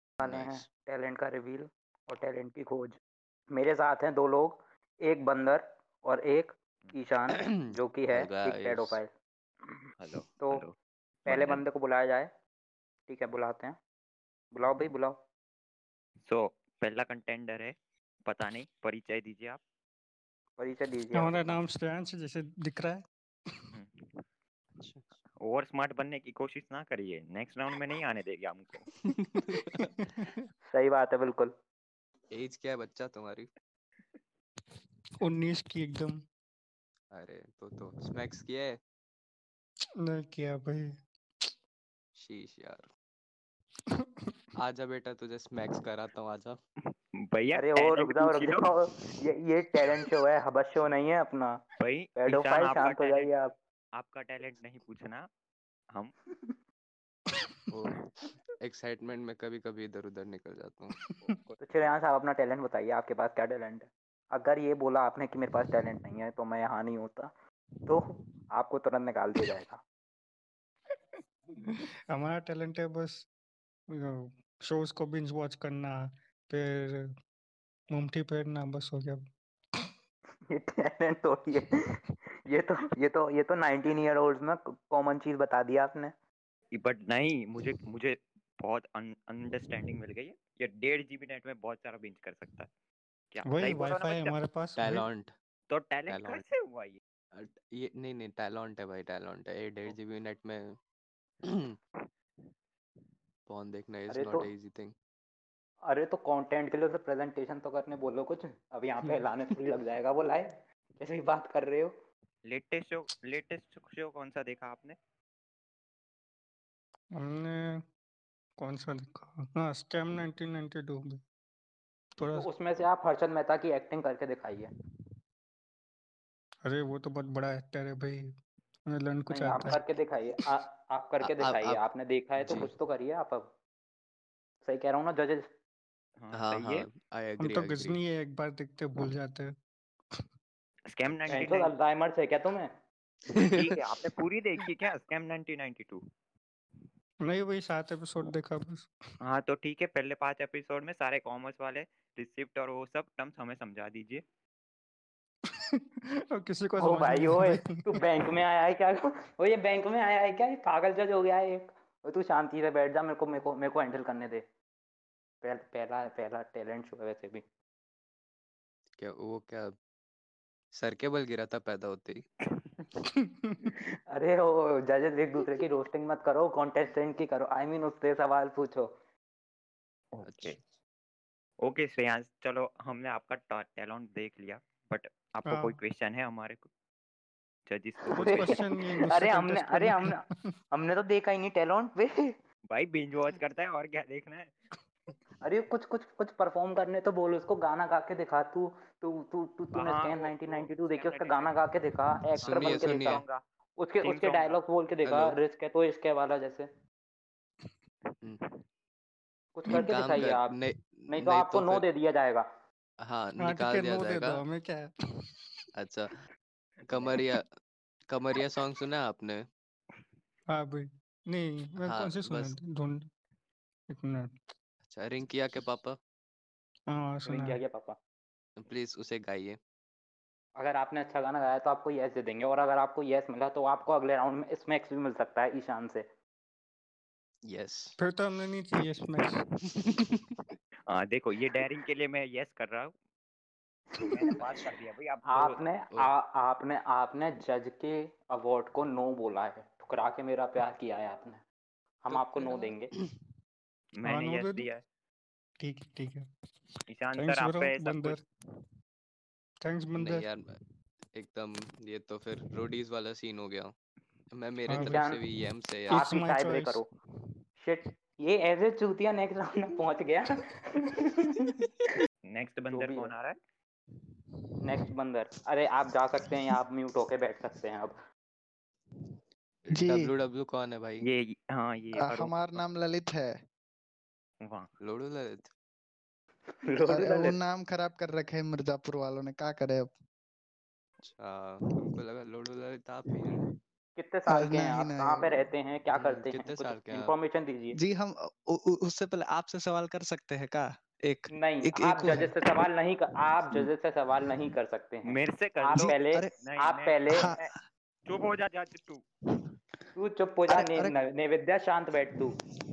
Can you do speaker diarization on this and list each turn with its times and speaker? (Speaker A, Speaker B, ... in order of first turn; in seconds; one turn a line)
Speaker A: 0.2-3.0
Speaker B: 0.2-0.7
Speaker A: 3.5-9.1
Speaker B: 7.3-9.0
Speaker C: 10.0-10.8
Speaker A: 10.4-10.7
Speaker A: 11.3-12.3
Speaker C: 11.3-11.6
Speaker A: 13.1-13.8
Speaker A: 14.5-15.2
Speaker C: 16.2-17.7
Speaker C: 18.3-19.6
Speaker A: 20.6-21.6
Speaker D: 21.1-23.8
Speaker C: 23.7-24.1
Speaker B: 24.8-25.1
Speaker C: 25.4-28.9
Speaker B: 29.1-29.8
Speaker D: 29.9-30.5
Speaker A: 30.7-31.5
Speaker B: 32.3-33.5
Speaker D: 35.2-36.2
Speaker B: 37.1-38.8
Speaker D: 40.0-40.9
Speaker B: 42.2-42.9
Speaker D: 44.0-44.4
Speaker B: 44.6-46.6
Speaker C: 46.9-48.7
Speaker A: 47.6-51.6
Speaker C: 51.8-53.3
Speaker A: 52.2-53.5
Speaker C: 54.0-55.3
Speaker B: 57.7-58.0
Speaker B: 58.6-60.9
Speaker D: 61.0-61.4
Speaker C: 61.2-61.6
Speaker A: 61.6-67.3
Speaker A: 67.9-69.8
Speaker D: 71.6-73.3
Speaker D: 73.9-77.0
Speaker D: 77.9-79.2
Speaker A: 80.5-81.9
Speaker A: 82.5-86.1
Speaker C: 86.7-92.7
Speaker C: 93.3-94.3
Speaker D: 93.4-95.1
Speaker B: 94.8-95.3
Speaker C: 95.7-97.0
Speaker B: 96.1-96.4
Speaker B: 97.3-100.8
Speaker B: 101.4-101.8
Speaker B: 103.5-104.9
Speaker A: 104.1-104.5
Speaker A: 105.9-111.9
Speaker C: 112.5-115.0
Speaker D: 117.2-117.8
Speaker D: 118.6-121.2
Speaker D: 122.2-122.5
Speaker A: 122.2-124.7
Speaker D: 126.7-128.2
Speaker D: 128.9-129.9
Speaker A: 129.3-133.5
Speaker B: 131.2-131.8
Speaker B: 132.4-132.7
Speaker A: 134.6-135.5
Speaker C: 136.2-136.9
Speaker B: 136.3-138.0
Speaker D: 137.4-139.5
Speaker C: 140.9-141.7
Speaker A: 141.3-142.7
Speaker B: 143.3-143.7
Speaker C: 143.4-146.0
Speaker D: 147.2-148.9
Speaker C: 149.2-154.2
Speaker D: 155.5-155.8
Speaker D: 156.3-158.3
Speaker A: 156.8-164.4
Speaker A: 165.4-167.4
Speaker B: 169.0-169.7
Speaker B: 170.7-172.2
Speaker D: 173.0-173.7
Speaker A: 174.1-178.9
Speaker C: 180.1-180.6
Speaker B: 180.2-180.6
Speaker C: 181.6-186.7
Speaker D: 185.4-185.8
Speaker C: 187.7-188.6
Speaker D: 188.1-190.3
Speaker A: 188.1-192.3
Speaker C: 192.7-194.5
Speaker A: 195.4-203.2
Speaker C: 199.8-201.5
Speaker B: 202.4-203.2
Speaker C: 202.4-203.4
Speaker A: 203.8-206.7
Speaker C: 204.0-204.6
Speaker B: 205.0-205.4
Speaker C: 208.1-208.5
Speaker A: 209.6-210.5
Speaker B: 209.8-211.8
Speaker A: 211.1-212.5
Speaker B: 213.0-214.4
Speaker D: 213.4-214.9
Speaker B: 215.8-216.1
Speaker B: 216.9-217.5
Speaker B: 218.1-219.5
Speaker D: 220.5-223.1
Speaker B: 221.8-222.6
Speaker D: 223.9-224.3
Speaker B: 224.9-226.0
Speaker D: 226.9-227.6
Speaker A: 227.3-228.0
Speaker B: 228.6-229.6
Speaker A: 230.6-236.1
Speaker B: 237.4-237.9
Speaker D: 238.0-239.4
Speaker B: 239.8-240.2
Speaker C: 240.9-242.9
Speaker C: 244.0-245.6
Speaker A: 245.3-251.4
Speaker A: 252.0-252.9
Speaker B: 252.1-252.4
Speaker C: 254.0-254.8
Speaker D: 254.0-254.7
Speaker D: 255.6-256.3
Speaker C: 256.9-258.2
Speaker D: 257.1-258.2
Speaker D: 259.6-260.3
Speaker B: 260.0-260.4
Speaker B: 261.1-263.7
Speaker B: 264.3-266.1
Speaker D: 264.7-265.1
Speaker A: 264.8-265.2
Speaker D: 265.9-266.8
Speaker A: 265.9-266.9
Speaker A: 267.6-271.5
Speaker C: 272.3-273.4
Speaker A: 272.7-273.1
Speaker A: 274.6-277.9
Speaker B: 279.7-281.1
Speaker E: 279.7-280.1
Speaker C: 281.0-282.6
Speaker E: 282.0-283.3
Speaker C: 284.4-284.7
Speaker B: 284.8-285.5
Speaker A: 286.7-287.4
Speaker E: 286.9-289.9
Speaker B: 291.0-293.4
Speaker A: 294.0-297.8
Speaker E: 294.3-295.4
Speaker B: 295.9-297.1
Speaker E: 297.8-302.4
Speaker A: 301.4-307.3
Speaker C: 305.1-307.5
Speaker E: 305.8-306.3
Speaker E: 307.2-307.6
Speaker C: 308.1-309.0
Speaker A: 310.0-312.4
Speaker E: 310.5-310.9